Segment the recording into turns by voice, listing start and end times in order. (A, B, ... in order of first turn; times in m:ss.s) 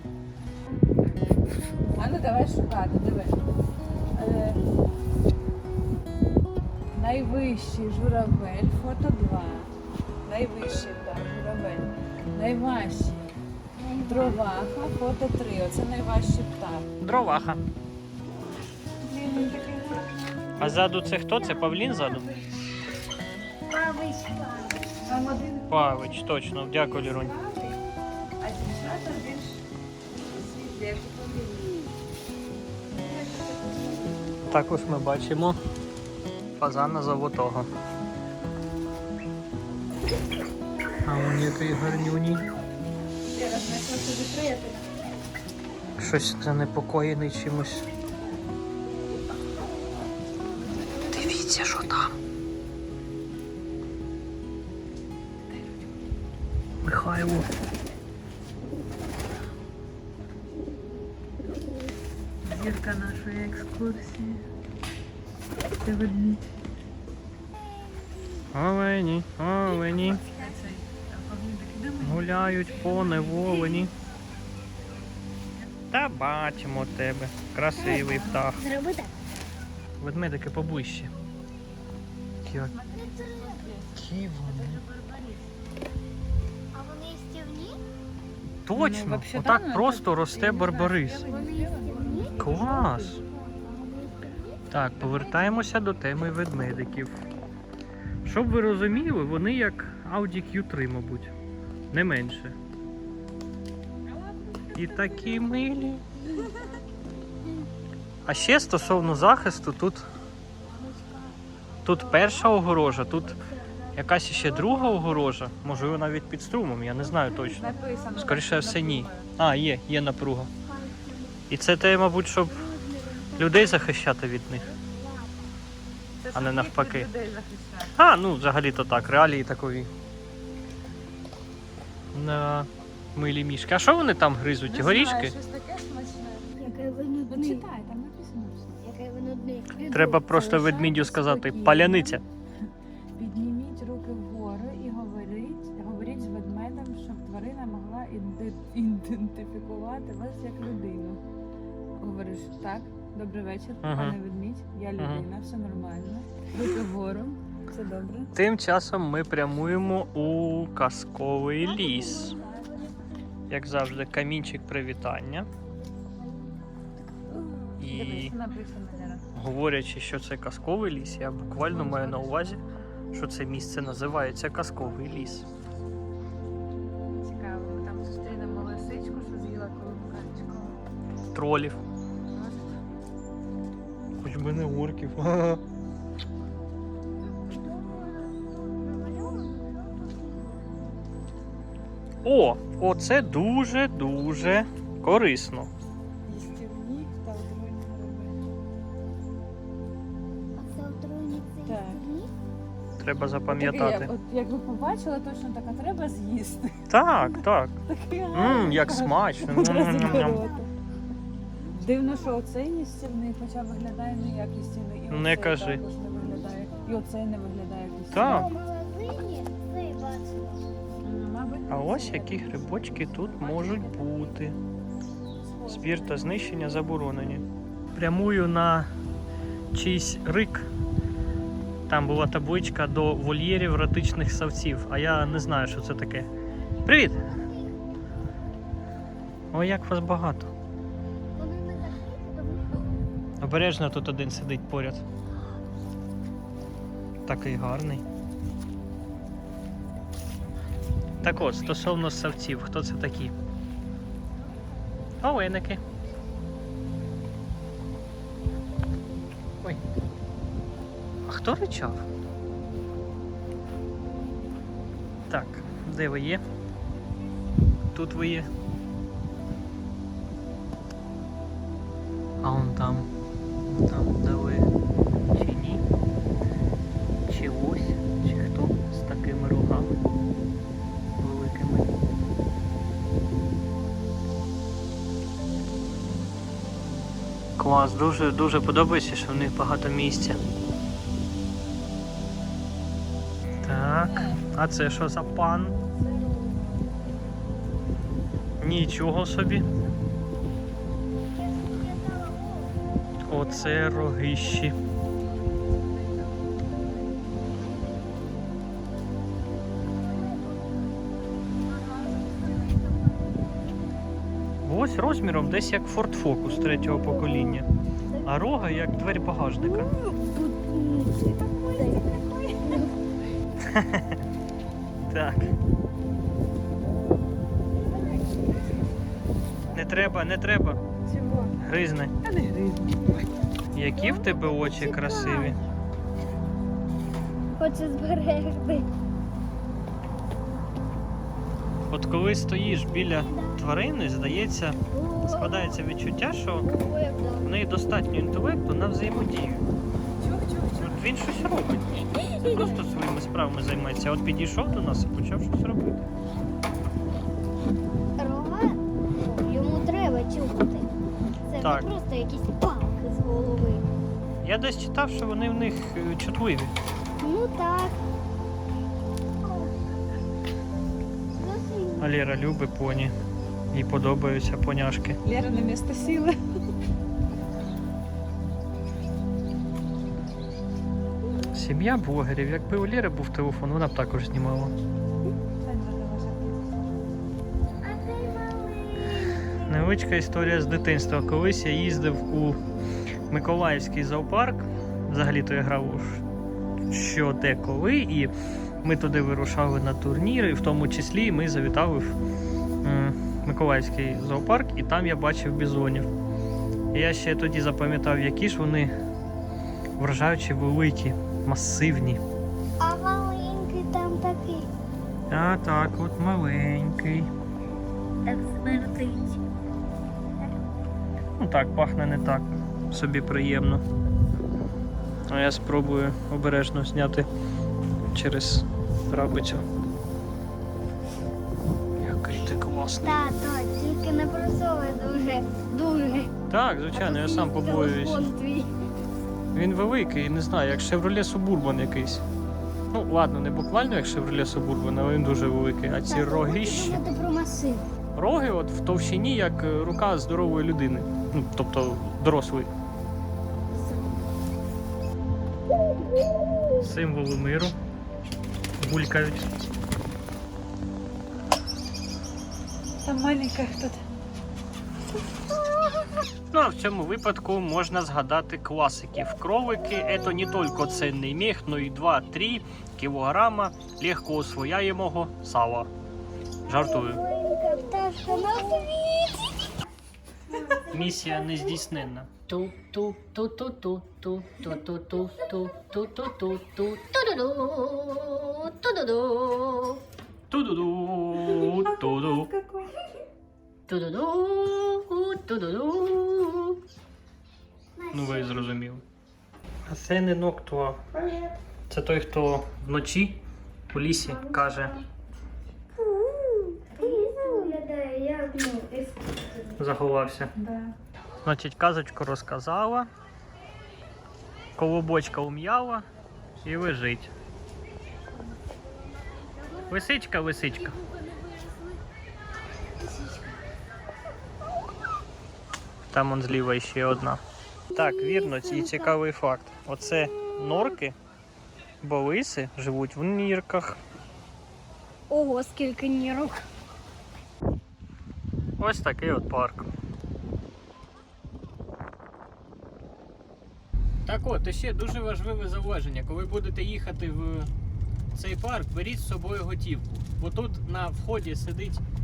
0:01.9-0:03.4 A
0:04.1-0:04.6 A
0:06.9-0:09.7 A
0:10.2-0:13.3 A
0:13.8-0:14.4 B
0:14.1-0:16.8 A
0:17.0-0:17.6 C
0:19.0-0:20.2 A
0:20.6-0:22.3 C
0:23.7-0:24.9 B
0:25.0-0:26.1 A
0:25.7-0:27.3 C
0:26.7-0:27.8 A
0:28.4-0:29.6 A
0:30.1-0:31.8 A
0:32.9-0:34.3 A
0:34.4-0:35.6 C
0:36.6-0:37.7 C
0:41.0-0:42.4 C
0:43.3-0:44.9 A
0:46.0-0:47.9 C
0:51.1-0:52.2 C
0:56.8-0:57.5 C
1:02.4-1:04.4 A
1:05.8-1:06.4 A
1:08.5-1:10.2 C
1:09.7-1:13.8 A
1:12.0-1:13.9 C
1:15.9-1:18.6 C
1:17.8-1:19.1 B
1:17.9-1:18.4 A
1:20.0-1:21.1 C
1:22.4-1:22.7 C
1:22.6-1:25.4 A
1:22.9-1:23.7 B
1:24.0-1:24.8 C
1:26.7-1:27.8 B
1:28.6-1:31.2 C
1:28.7-1:33.1 A
1:31.3-1:34.6 B
1:32.4-1:33.2 C
1:34.7-1:37.2 C
1:38.2-1:41.3 C
1:41.9-1:42.6 C
1:44.2-1:45.5 A
1:44.7-1:46.0 C
1:46.3-1:47.7 B
1:48.2-1:50.0 C
1:50.6-1:54.8 B
1:51.8-1:53.4 C
1:53.9-2:00.5 C
1:57.1-1:58.4 B
1:57.6-1:59.3 A
2:00.6-2:01.5 B
2:01.5-2:02.6 C
2:02.2-2:03.9 B
2:03.4-2:04.7 C
2:04.7-2:05.6 B
2:06.2-2:07.9 A
2:06.3-2:07.1 C
2:07.9-2:09.9 C
2:12.1-2:15.3 C
2:14.7-2:16.7 A
2:16.6-2:17.7 B
2:17.3-2:18.8 A
2:18.8-2:20.4 B
2:19.9-2:22.2 C
2:20.2-2:22.2 A
2:23.2-2:31.2 A
2:32.0-2:38.3 A
2:33.8-2:34.2 C
2:35.0-2:35.2 C
2:38.3-2:42.4 C
2:41.8-2:43.0 B
2:42.3-2:42.9 A
2:43.5-2:45.5 C
2:47.8-2:48.3 C
2:47.8-2:49.2 A
2:49.3-2:52.6 C
2:51.6-2:52.6 A
2:53.1-2:55.4 C
2:57.2-3:00.8 A
3:01.3-3:01.8 C
3:02.3-3:02.8 A
3:04.2-3:05.6 C
3:07.4-3:11.0 B
3:12.2-3:15.7 C
3:16.2-3:18.4 A
3:20.6-3:22.3 B
3:21.6-3:22.0 A
3:23.0-3:24.1 C
3:23.5-3:30.7 A
3:26.9-3:27.7 C
3:28.3-3:30.4 C
3:29.8-3:30.7 B
3:31.7-3:32.3 B
3:31.7-3:38.4 A
3:35.1-3:35.8 C
3:36.2-3:36.9 B
3:38.1-3:38.5 C
3:38.1-3:40.7 B
3:41.0-3:44.3 A
3:41.7-3:44.6 C
3:45.5-3:46.5 A
3:45.7-3:48.9 C
3:49.7-3:50.7 C
3:51.9-3:56.3 C
3:56.8-3:57.3 C
3:57.3-3:57.6 B
3:59.5-4:00.5 C
4:01.3-4:02.8 B
4:03.4-4:05.0 C
4:07.3-4:08.0 C
4:11.2-4:13.3 C
4:15.2-4:15.8 C
4:21.3-4:22.0 C
4:25.3-4:26.4 C
4:27.9-4:28.5 C
4:32.4-4:33.1 C
4:33.7-4:34.7 C
4:35.3-4:35.8 C
4:37.3-4:39.9 C
4:41.2-4:41.9 C
4:47.6-4:50.4 C
4:53.6-4:55.7 C
4:56.3-4:56.7 B
4:58.6-4:59.7 C
5:01.3-5:02.8 B
5:03.3-5:04.7 C
5:03.6-5:04.4 B
5:06.0-5:06.3 A
5:10.1-5:10.8 B
5:14.6-5:17.7 C
5:16.9-5:18.3 B
5:18.2-5:19.9 C
5:19.5-5:22.9 B
5:21.3-5:22.9 A
5:23.6-5:24.2 C
5:25.1-5:25.5 C
5:29.7-5:30.8 C
5:31.1-5:31.6 A
5:31.6-5:32.1 C
5:32.2-5:33.1 A
5:33.7-5:35.6 C
5:33.9-5:35.7 B
5:37.6-5:38.9 B
5:41.9-5:46.7 C
5:42.9-5:43.6 B
5:44.9-5:45.8 B
5:46.6-5:47.5 B
5:47.4-5:49.7 C
5:50.2-5:51.2 A
5:50.8-5:56.0 C
5:52.1-5:52.8 A
5:58.2-6:00.9 B
6:01.4-6:03.8 B
6:01.6-6:01.9 C
6:04.4-6:06.7 C
6:07.2-6:08.0 B
6:11.3-6:12.1 B
6:12.0-6:13.1 C
6:13.7-6:15.2 C
6:15.2-6:16.4 A
6:21.5-6:24.7 C
6:25.6-6:26.7 A
6:27.8-6:29.8 B
6:29.7-6:32.6 C
6:33.3-6:36.2 C
6:36.9-6:38.3 C
6:38.8-6:42.1 C
6:42.8-6:46.1 C
6:46.9-6:48.9 C
6:50.0-6:52.2 C
6:52.8-6:54.7 B
6:55.3-6:57.3 C
6:58.2-6:59.4 B
7:01.4-7:03.8 C
7:05.3-7:07.3 C
7:08.1-7:09.6 C
7:12.0-7:13.3 C
7:13.0-7:16.3 B
7:16.5-7:18.3 C
7:16.9-7:18.7 B
7:19.5-7:22.2 C
7:22.9-7:27.0 C
7:26.1-7:27.9 B
7:28.1-7:32.7 C
7:33.7-7:34.2 B
7:36.8-7:37.7 C
7:38.8-7:39.5 C
7:43.0-7:44.0 A
7:46.5-7:55.9 C
7:56.6-7:57.2 C
7:56.7-7:59.7 B
8:00.8-8:07.0 C
8:04.4-8:10.0 B
8:10.5-8:12.5 C
8:11.7-8:12.1 A
8:12.6-8:12.9 A
8:13.9-8:16.8 B
8:18.0-8:18.7 B
8:18.1-8:19.0 C
8:19.9-8:21.0 C
8:21.2-8:21.5 B
8:21.9-8:23.4 C
8:23.9-8:25.0 C
8:24.2-8:25.0 B
8:26.1-8:29.8 B
8:29.8-8:30.5 C
8:30.6-8:30.9 A
8:31.4-8:33.1 C
8:34.8-8:36.0 C
8:36.6-8:37.3 C
8:39.9-8:41.0 C
8:41.0-8:41.9 B
8:43.0-8:43.6 B
8:46.1-8:47.4 C
8:47.9-8:49.2 B
8:47.9-8:51.2 C
8:50.5-8:51.0 B
8:52.0-8:54.0 C
8:55.3-8:56.6 B
8:58.8-8:59.9 C
9:04.2-9:07.7 C
9:08.3-9:12.0 C